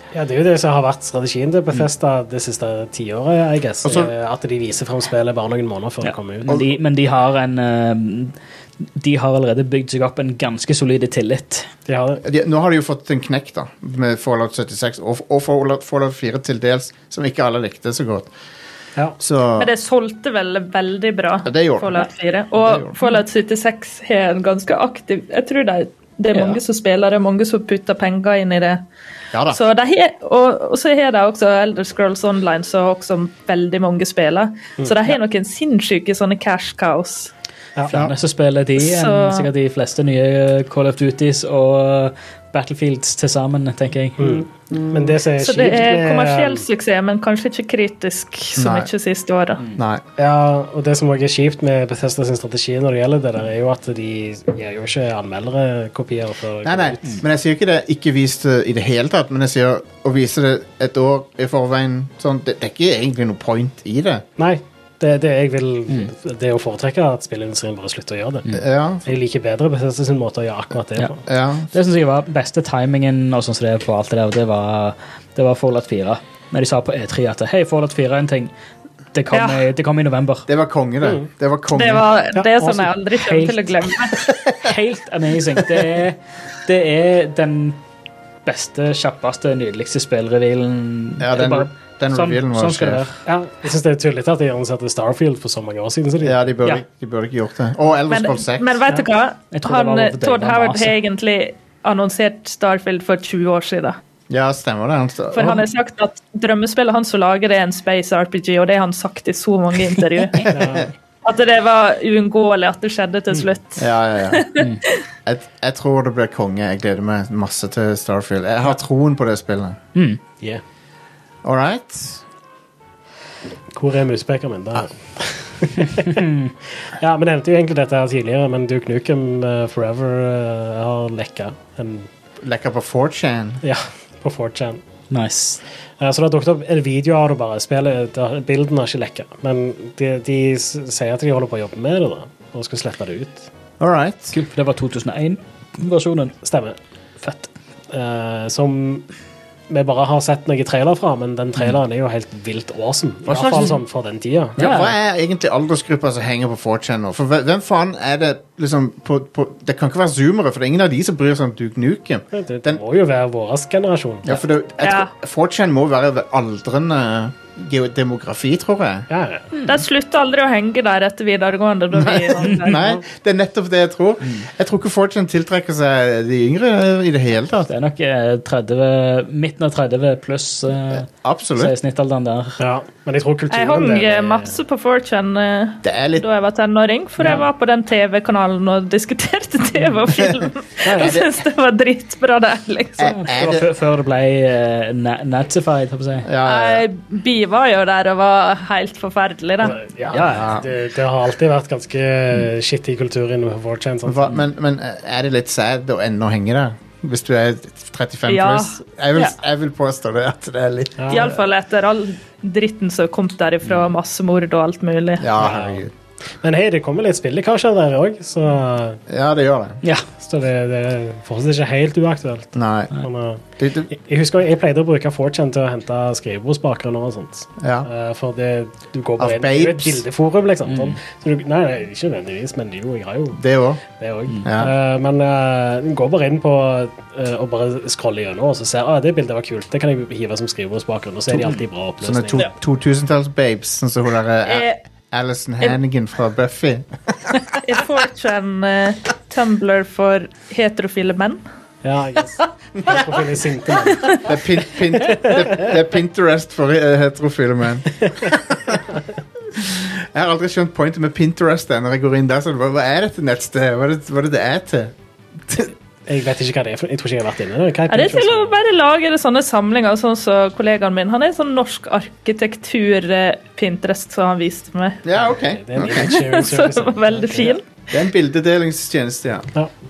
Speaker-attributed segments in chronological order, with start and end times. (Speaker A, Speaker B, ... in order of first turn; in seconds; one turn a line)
Speaker A: 0.1-6.6
Speaker B: 3.8-4.1
Speaker C: 6.0-8.3
Speaker C: 8.9-11.7
Speaker A: 11.9-12.2
Speaker B: 12.2-18.3
Speaker B: 19.2-19.7
Speaker D: 19.6-28.8
Speaker B: 21.4-23.0
Speaker C: 26.3-26.6
Speaker B: 29.3-29.6
Speaker D: 29.5-37.3
Speaker C: 37.9-44.4
Speaker D: 38.8-39.5
Speaker A: 44.2-46.6
Speaker B: 44.7-45.1
Speaker D: 45.4-49.6
Speaker B: 48.5-48.9
Speaker B: 49.8-50.0
Speaker A: 50.2-57.2
Speaker B: 56.6-64.2
Speaker A: 64.4-68.5
Speaker B: 68.5-69.0
Speaker A: 69.0-71.2
Speaker B: 71.2-71.7
Speaker C: 71.7-78.5
Speaker C: 79.1-80.5
Speaker D: 79.3-79.6
Speaker B: 80.5-82.0
Speaker D: 81.7-84.3
Speaker C: 82.5-83.7
Speaker B: 84.3-84.7
Speaker C: 84.5-87.8
Speaker C: 88.4-93.2
Speaker B: 91.2-93.0
Speaker A: 93.2-96.4
Speaker B: 96.2-98.8
Speaker D: 98.1-104.0
Speaker C: 99.5-101.0
Speaker B: 104.3-105.7
Speaker D: 105.3-110.6
Speaker A: 110.5-110.9
Speaker D: 111.2-114.8
Speaker B: 113.8-114.5
Speaker B: 115.2-119.8
Speaker C: 119.9-120.2
Speaker B: 121.4-122.2
Speaker A: 123.7-132.1
Speaker C: 126.0-126.5
Speaker B: 132.4-133.6
Speaker A: 133.6-134.8
Speaker C: 135.1-135.6
Speaker A: 136.0-143.5
Speaker B: 143.8-144.3
Speaker C: 144.3-146.4
Speaker A: 146.4-146.8
Speaker C: 147.2-147.5
Speaker A: 147.9-149.0
Speaker A: 149.7-154.6
Speaker B: 153.2-153.8
Speaker B: 154.6-162.8
Speaker C: 154.6-154.9
Speaker A: 162.3-164.4
Speaker B: 164.2-169.1
Speaker D: 164.8-165.1
Speaker A: 169.1-169.5
Speaker D: 169.6-172.8
Speaker B: 171.9-177.7
Speaker C: 177.7-182.6
Speaker B: 180.9-181.7
Speaker A: 182.6-184.6
Speaker D: 183.5-193.2
Speaker B: 185.8-186.3
Speaker B: 190.1-190.4
Speaker A: 190.8-191.2
Speaker B: 190.9-191.4
Speaker B: 193.0-193.7
Speaker C: 193.1-196.3
Speaker B: 196.2-196.9
Speaker D: 196.4-199.8
Speaker A: 199.6-204.4
Speaker C: 200.1-200.5
Speaker B: 200.3-200.7
Speaker B: 204.0-211.4
Speaker D: 208.3-209.3
Speaker A: 211.0-211.3
Speaker D: 211.1-215.3
Speaker B: 215.2-215.9
Speaker A: 215.3-215.8
Speaker A: 216.4-219.0
Speaker B: 219.1-219.8
Speaker A: 220.2-242.5
Speaker B: 222.5-222.9
Speaker B: 223.6-223.9
Speaker B: 227.6-227.9
Speaker B: 229.2-230.0
Speaker C: 230.7-230.9
Speaker B: 233.3-233.8
Speaker B: 234.4-234.7
Speaker C: 241.4-241.6
Speaker B: 242.0-247.4
Speaker D: 244.4-244.8
Speaker D: 247.6-251.4
Speaker A: 251.8-254.2
Speaker B: 254.1-258.9
Speaker A: 255.1-255.7
Speaker A: 258.1-258.3
Speaker B: 259.6-264.9
Speaker B: 265.5-265.7
Speaker A: 266.1-268.6
Speaker D: 267.9-275.0
Speaker B: 275.0-276.2
Speaker A: 275.2-277.6
Speaker D: 275.9-277.6
Speaker B: 277.9-279.5